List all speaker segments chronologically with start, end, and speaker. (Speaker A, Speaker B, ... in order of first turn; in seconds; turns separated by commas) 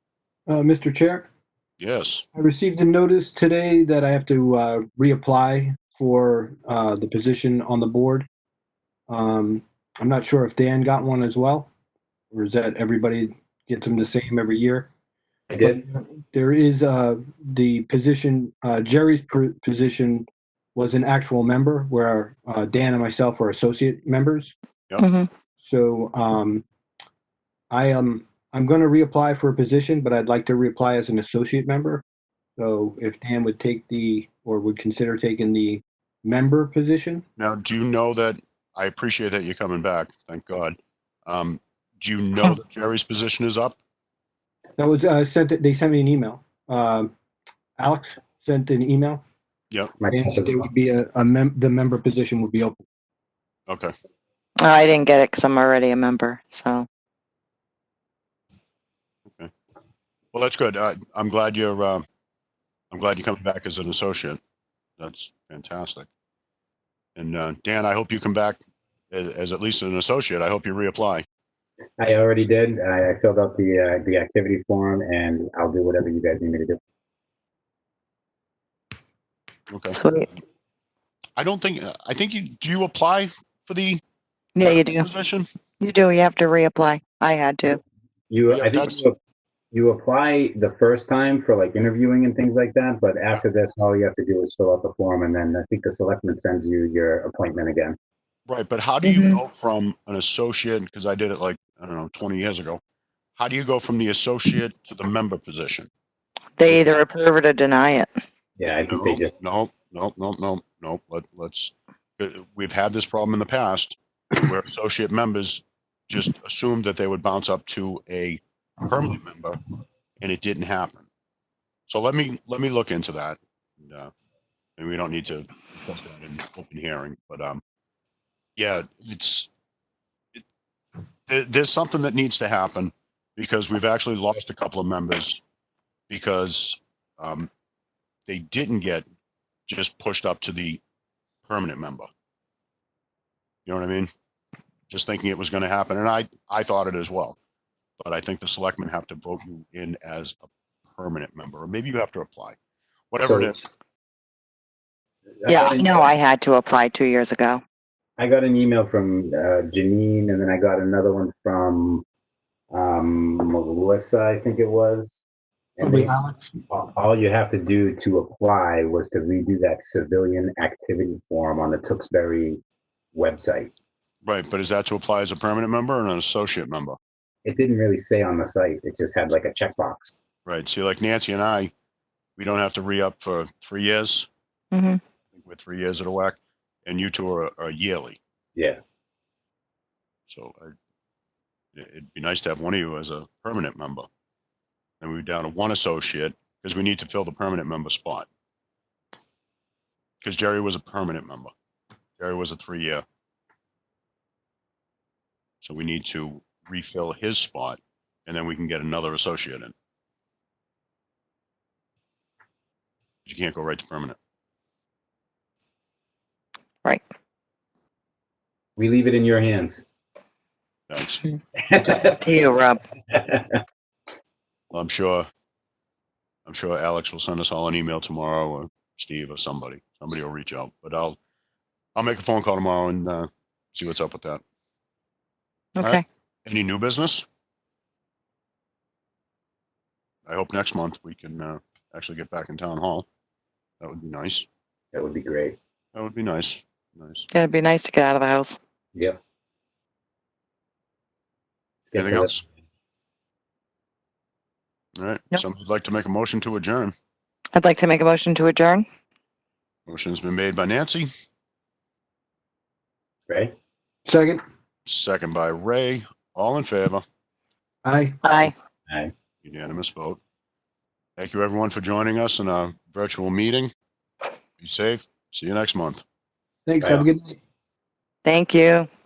Speaker A: 0.5-1.3, Speaker B: 1.8-2.2, Speaker A: 2.3-8.2, Speaker A: 9.1-11.7, Speaker A: 12.3-14.9, Speaker C: 15.5-15.8, Speaker A: 15.6-24.5, Speaker D: 25.0-25.3, Speaker A: 25.6-26.6, Speaker A: 27.7-32.0, Speaker A: 32.6-37.2, Speaker B: 37.4-43.8, Speaker A: 44.8-47.1, Speaker A: 47.8-49.2, Speaker C: 50.0-50.7, Speaker A: 50.1-52.8, Speaker D: 54.6-56.9, Speaker B: 60.3-62.0, Speaker B: 62.9-64.4, Speaker B: 65.0-66.1, Speaker B: 67.2-68.6, Speaker B: 69.1-71.2, Speaker C: 72.0-76.8, Speaker B: 79.7-80.0, Speaker D: 79.9-80.3, Speaker B: 81.4-84.0, Speaker D: 84.5-85.1, Speaker B: 84.6-85.5, Speaker D: 85.8-87.8, Speaker C: 88.3-89.2, Speaker B: 88.5-89.0, Speaker C: 89.7-98.0, Speaker B: 98.5-102.8, Speaker D: 99.0-99.4, Speaker B: 103.3-105.9, Speaker D: 106.6-108.1, Speaker B: 106.7-107.0, Speaker C: 108.6-109.3, Speaker B: 108.8-119.6, Speaker B: 120.2-121.0, Speaker B: 121.9-124.1, Speaker B: 124.8-127.6, Speaker B: 128.6-129.5, Speaker B: 131.3-135.4, Speaker B: 136.1-137.5, Speaker B: 138.3-139.1, Speaker B: 139.7-140.8, Speaker B: 141.4-142.1, Speaker B: 143.7-144.1, Speaker B: 144.9-147.4, Speaker B: 148.0-152.6, Speaker B: 153.1-153.7, Speaker C: 153.2-153.5, Speaker C: 155.4-156.1, Speaker D: 155.5-157.6, Speaker C: 158.2-162.0, Speaker C: 162.7-165.2, Speaker C: 165.8-166.2, Speaker A: 165.8-166.4, Speaker C: 166.7-172.6, Speaker C: 173.1-173.7, Speaker B: 174.2-177.0, Speaker C: 177.4-180.2, Speaker B: 180.4-181.7, Speaker B: 182.4-184.3, Speaker D: 184.7-185.0, Speaker B: 185.3-188.2, Speaker B: 190.3-190.7, Speaker B: 191.7-194.1, Speaker B: 195.0-198.3, Speaker B: 200.2-201.5, Speaker B: 202.2-203.0, Speaker B: 205.6-209.7, Speaker B: 213.2-214.2, Speaker C: 218.8-219.8, Speaker B: 220.9-221.2, Speaker C: 221.6-222.3, Speaker D: 222.1-222.8, Speaker C: 223.1-223.6, Speaker B: 224.7-225.3, Speaker B: 226.4-231.2, Speaker B: 231.9-234.4, Speaker D: 235.8-236.0, Speaker B: 235.8-237.3, Speaker B: 240.2-243.1, Speaker B: 243.8-244.5, Speaker C: 244.9-245.6, Speaker B: 245.9-247.3, Speaker D: 247.3-248.6, Speaker C: 251.8-252.5, Speaker B: 251.9-252.4, Speaker B: 255.0-256.9, Speaker D: 257.5-258.9, Speaker B: 259.9-261.1, Speaker C: 263.3-263.5, Speaker A: 264.1-264.4, Speaker B: 264.9-267.0, Speaker A: 267.8-268.2, Speaker D: 268.2-268.5, Speaker B: 269.4-270.2, Speaker B: 271.2-273.7, Speaker B: 274.6-276.0, Speaker A: 276.6-277.4, Speaker C: 276.8-277.1, Speaker D: 278.2-278.9